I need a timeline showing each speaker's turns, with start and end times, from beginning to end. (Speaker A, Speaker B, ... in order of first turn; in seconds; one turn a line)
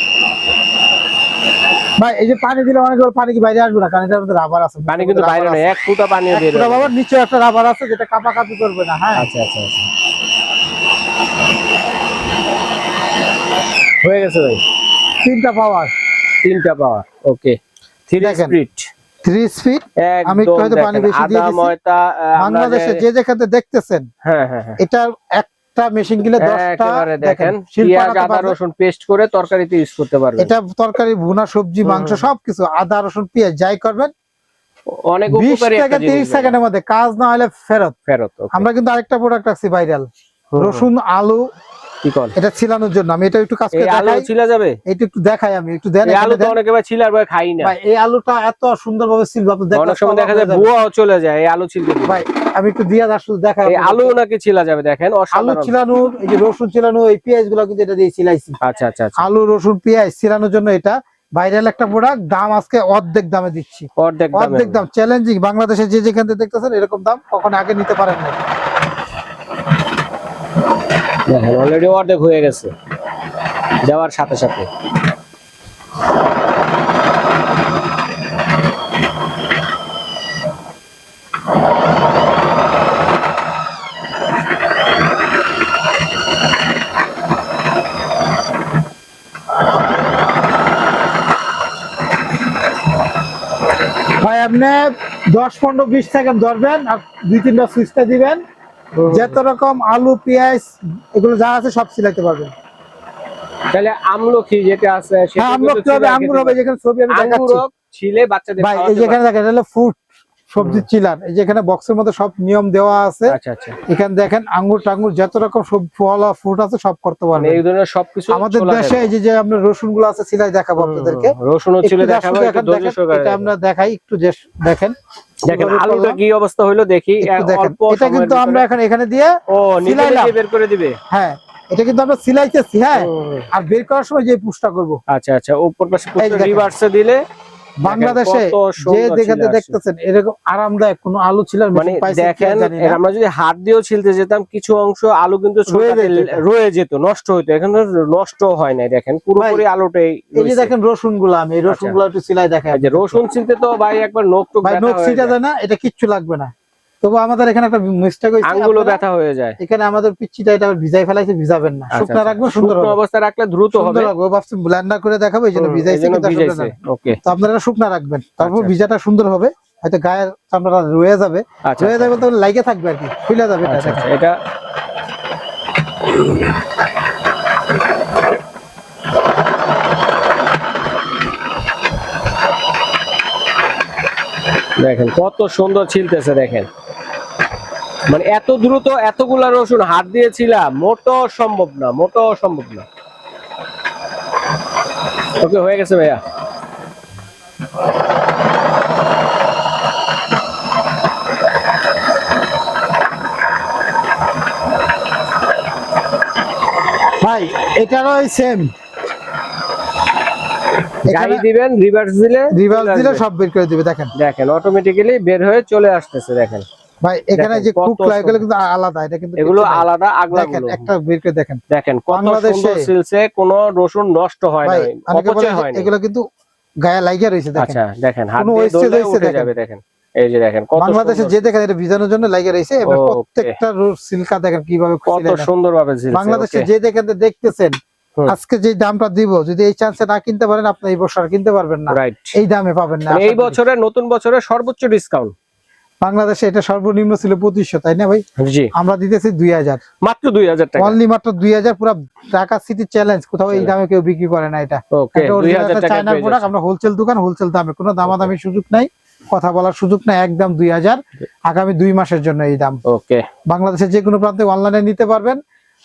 Speaker A: 2.0-5.7
Speaker B: 4.9-6.9
Speaker A: 6.3-9.3
Speaker B: 9.2-9.9
Speaker B: 14.0-14.6
Speaker A: 15.2-15.9
Speaker B: 16.4-17.6
Speaker B: 18.1-18.9
Speaker A: 18.2-18.6
Speaker A: 19.2-21.7
Speaker B: 20.0-23.0
Speaker A: 22.4-24.1
Speaker B: 24.2-24.8
Speaker A: 24.8-28.6
Speaker B: 26.4-30.5
Speaker A: 30.4-34.1
Speaker B: 31.9-32.3
Speaker B: 34.9-36.6
Speaker A: 35.3-38.0
Speaker B: 38.1-38.7
Speaker A: 38.5-40.1
Speaker B: 40.5-40.9
Speaker A: 40.6-41.5
Speaker B: 42.0-42.3
Speaker A: 42.4-44.3
Speaker B: 43.7-44.8
Speaker A: 44.9-46.6
Speaker B: 46.0-47.7
Speaker A: 47.6-50.7
Speaker B: 49.7-52.2
Speaker A: 52.1-54.2
Speaker B: 53.7-55.7
Speaker A: 55.3-58.6
Speaker B: 58.6-59.2
Speaker A: 59.2-68.4
Speaker B: 64.0-64.8
Speaker B: 71.3-72.7
Speaker B: 73.8-74.7
Speaker A: 94.2-98.4
Speaker B: 99.0-99.4
Speaker A: 99.1-102.5
Speaker B: 103.7-109.2
Speaker A: 105.4-107.6
Speaker A: 108.6-110.0
Speaker A: 110.5-113.4
Speaker B: 110.6-110.8
Speaker B: 113.3-113.8
Speaker A: 113.9-117.6
Speaker B: 117.4-119.1
Speaker A: 118.3-125.0
Speaker B: 120.8-123.5
Speaker A: 125.5-126.2
Speaker B: 125.5-128.7
Speaker A: 127.2-130.3
Speaker B: 129.5-131.0
Speaker A: 131.1-135.0
Speaker B: 132.9-133.5
Speaker B: 135.1-137.2
Speaker A: 136.2-136.7
Speaker A: 137.8-143.0
Speaker B: 137.9-139.8
Speaker B: 141.8-150.7
Speaker A: 145.7-146.4
Speaker A: 149.4-149.6
Speaker A: 150.4-153.2
Speaker B: 151.7-152.0
Speaker B: 152.7-155.3
Speaker A: 154.6-159.0
Speaker B: 158.4-159.6
Speaker A: 159.6-163.0
Speaker B: 161.9-164.1
Speaker A: 163.7-166.7
Speaker B: 165.6-167.2
Speaker A: 167.2-174.1
Speaker B: 168.4-168.8
Speaker B: 171.7-172.2
Speaker B: 173.7-174.3
Speaker B: 184.8-186.7
Speaker B: 188.1-192.9
Speaker B: 195.4-196.2
Speaker A: 207.2-208.7
Speaker A: 211.1-211.4
Speaker B: 211.1-213.2
Speaker A: 212.5-214.1
Speaker B: 214.2-216.7
Speaker A: 217.0-221.6
Speaker B: 217.3-218.4
Speaker B: 219.4-220.9
Speaker B: 221.7-225.9
Speaker A: 222.1-222.9
Speaker A: 224.6-226.2
Speaker A: 226.8-227.8
Speaker B: 227.6-231.5
Speaker A: 228.4-229.5
Speaker A: 230.8-235.5
Speaker B: 232.9-233.6
Speaker B: 235.1-236.7
Speaker A: 236.1-237.8
Speaker A: 238.3-243.6
Speaker B: 241.9-242.3
Speaker B: 243.1-245.3
Speaker A: 246.0-248.2
Speaker B: 248.4-248.7
Speaker A: 248.8-249.8
Speaker B: 250.0-251.0
Speaker A: 250.8-262.8
Speaker B: 254.9-256.5
Speaker B: 258.1-258.3
Speaker B: 262.9-263.2
Speaker A: 263.5-265.4